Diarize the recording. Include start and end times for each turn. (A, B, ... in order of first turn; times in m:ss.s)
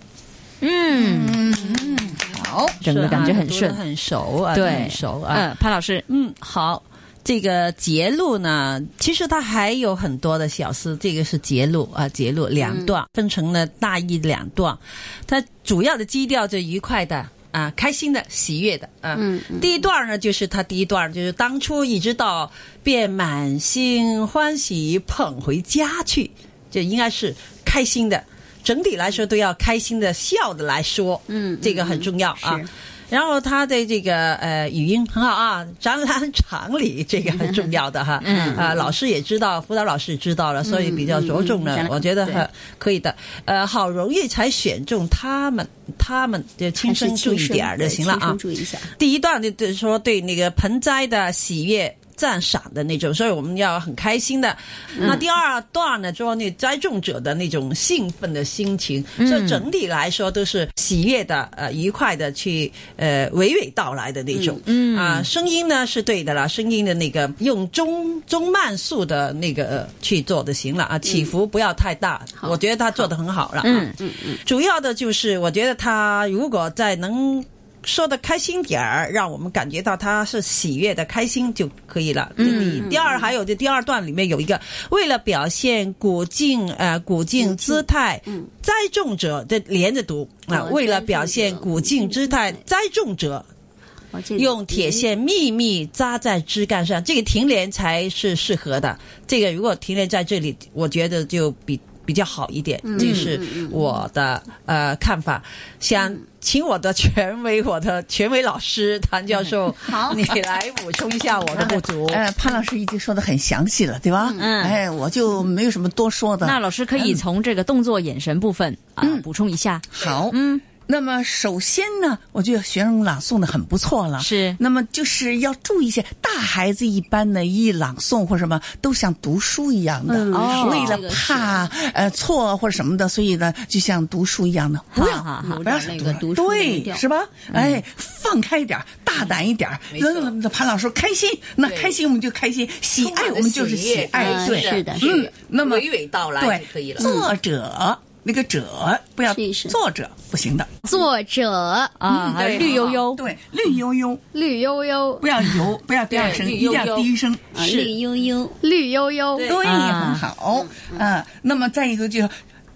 0:00.6-0:01.4 A
0:00.9-0:02.8 B
0:02.8-0:03.8 A
0:02.8-0:05.5 C
0:04.5-0:06.0 A
0:06.1-0:48.4 C
0:12.6-0:12.9 D
0:19.1-0:19.8 D
0:31.3-0:32.7 D
0:37.2-0:38.9 D
0:38.2-0:38.6 A
0:40.6-0:42.5 D
0:46.8-0:48.9 D
0:49.0-1:13.9 C
0:55.0-0:55.2 D
0:59.2-0:59.6 A
1:04.3-1:04.6 D
1:04.6-1:05.3 A
1:11.1-1:11.3 D
1:12.4-1:13.0 D
1:13.6-1:14.0 A
1:14.0-1:14.4 D
1:14.4-1:33.5 C
1:22.4-1:22.9 A
1:22.4-1:23.3 D
1:27.4-1:28.5 D
1:30.5-1:32.6 D
1:34.1-1:35.1 D
1:34.4-1:52.3 C
1:42.8-1:43.9 D
1:43.0-1:43.3 A
1:49.8-1:50.4 B
1:51.5-1:57.2 B
1:54.3-1:54.8 A
1:56.4-2:00.6 A
1:59.0-1:59.2 B
1:59.9-2:25.9 B
2:04.2-2:04.6 A
2:10.1-2:11.7 D
2:10.3-2:11.0 A
2:14.9-2:15.6 A
2:15.4-2:17.0 D
2:17.5-2:17.8 A
2:19.9-2:20.4 C
2:21.6-2:22.0 C
2:23.0-2:27.1 C
2:24.1-2:25.1 D
2:26.4-2:30.7 B
2:27.0-2:27.3 D
2:29.3-2:29.8 D
2:30.9-2:31.9 E
2:32.0-2:33.2 A
2:32.1-2:33.0 C
2:33.1-2:34.2 B
2:34.3-2:35.2 E
2:35.2-2:37.5 B
2:36.1-2:37.1 C
2:37.5-2:38.6 D
2:38.6-2:39.5 E
2:39.4-2:42.3 B
2:39.6-2:40.2 A
2:40.5-2:41.1 D